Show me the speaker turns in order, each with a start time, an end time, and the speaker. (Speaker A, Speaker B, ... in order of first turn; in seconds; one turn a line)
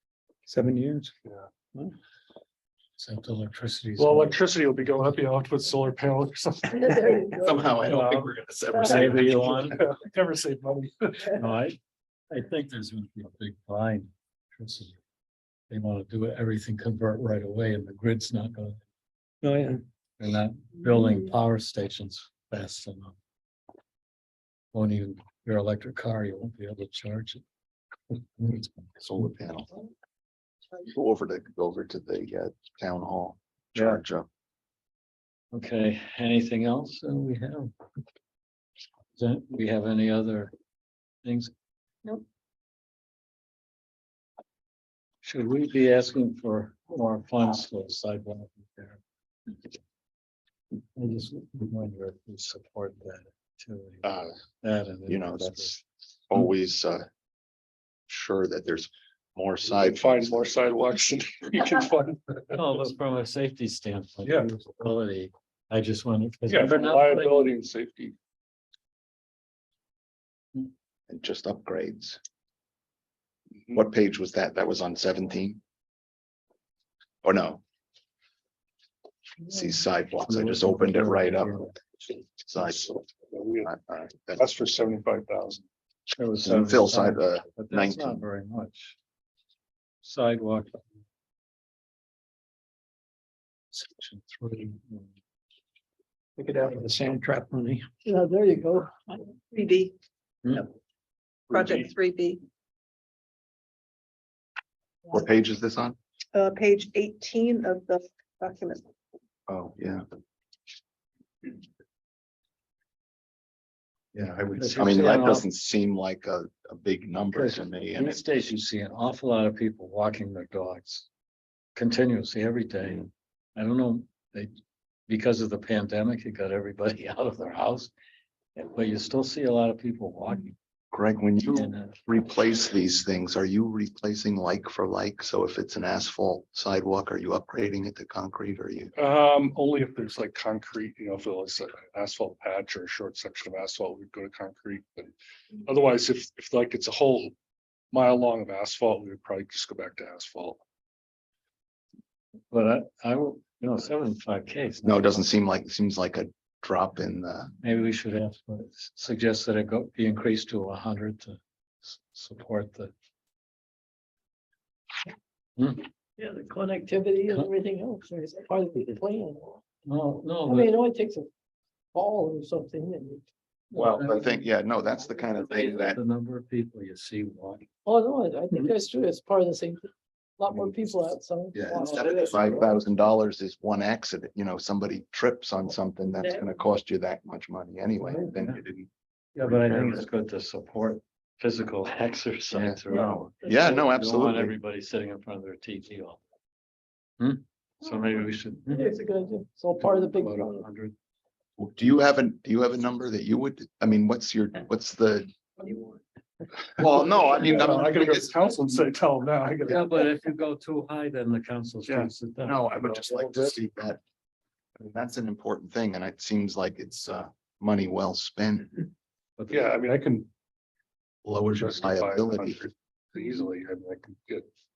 Speaker A: 0.5-1.1
Speaker B: 3.0-4.4
Speaker C: 4.0-6.9
Speaker D: 6.7-7.7
Speaker E: 7.4-9.7
Speaker B: 7.8-9.8
Speaker C: 7.8-8.3
Speaker C: 9.1-11.4
Speaker B: 11.3-11.8
Speaker B: 12.3-15.0
Speaker B: 15.7-18.8
Speaker A: 19.4-19.8
Speaker B: 20.2-23.1
Speaker B: 24.7-27.4
Speaker B: 28.4-28.7
Speaker E: 29.0-29.7
Speaker E: 30.8-34.3
Speaker B: 33.7-34.0
Speaker B: 35.5-37.7
Speaker B: 39.1-40.5
Speaker B: 41.2-41.5
Speaker B: 45.2-49.0
Speaker B: 51.0-55.8
Speaker E: 54.0-54.3
Speaker E: 55.1-57.0
Speaker E: 58.1-60.5
Speaker C: 59.6-62.6
Speaker B: 62.5-67.5
Speaker C: 64.2-64.5
Speaker C: 66.5-68.1
Speaker E: 71.1-72.2
Speaker E: 73.7-75.6
Speaker E: 77.2-77.6
Speaker E: 79.5-81.6
Speaker B: 80.3-81.8
Speaker E: 82.5-83.0
Speaker C: 83.3-83.7
Speaker E: 83.6-84.5
Speaker C: 84.4-85.6
Speaker B: 86.1-89.0
Speaker E: 86.4-88.2
Speaker B: 90.0-90.8
Speaker B: 93.7-95.1
Speaker A: 96.4-97.9
Speaker D: 98.0-99.2
Speaker F: 99.4-99.9
Speaker F: 101.5-102.4
Speaker E: 105.1-106.0
Speaker F: 106.3-108.8
Speaker E: 109.5-110.0
Speaker E: 114.1-118.2
Speaker B: 114.5-115.5
Speaker B: 117.3-121.1
Speaker B: 121.7-124.5
Speaker B: 125.1-127.9
Speaker B: 128.6-130.5
Speaker E: 130.9-138.9
Speaker B: 131.4-132.0
Speaker C: 138.9-145.1
Speaker C: 145.7-147.3
Speaker C: 147.9-150.6
Speaker B: 152.5-155.2
Speaker E: 154.8-157.5
Speaker B: 157.6-162.9
Speaker B: 165.6-165.9
Speaker D: 166.2-169.6
Speaker B: 169.8-170.8
Speaker D: 170.4-171.3
Speaker D: 171.9-173.3
Speaker B: 173.7-174.4
Speaker E: 173.7-176.0
Speaker D: 175.0-175.6
Speaker B: 175.3-177.7
Speaker D: 177.8-182.7
Speaker E: 181.5-188.9
Speaker B: 181.7-182.7
Speaker D: 186.1-186.6
Speaker B: 188.3-188.6
Speaker B: 189.3-196.2
Speaker E: 189.4-190.1
Speaker E: 192.5-194.5
Speaker B: 197.2-198.9
Speaker D: 198.7-200.6
Speaker B: 199.8-200.9
Speaker E: 201.6-205.3
Speaker E: 206.8-208.5
Speaker C: 206.8-210.1
Speaker B: 209.7-213.5
Speaker C: 211.8-212.1
Speaker E: 212.4-214.0
Speaker E: 214.8-218.9
Speaker B: 219.4-219.7
Speaker C: 219.5-220.3
Speaker E: 221.2-222.6
Speaker C: 221.5-224.5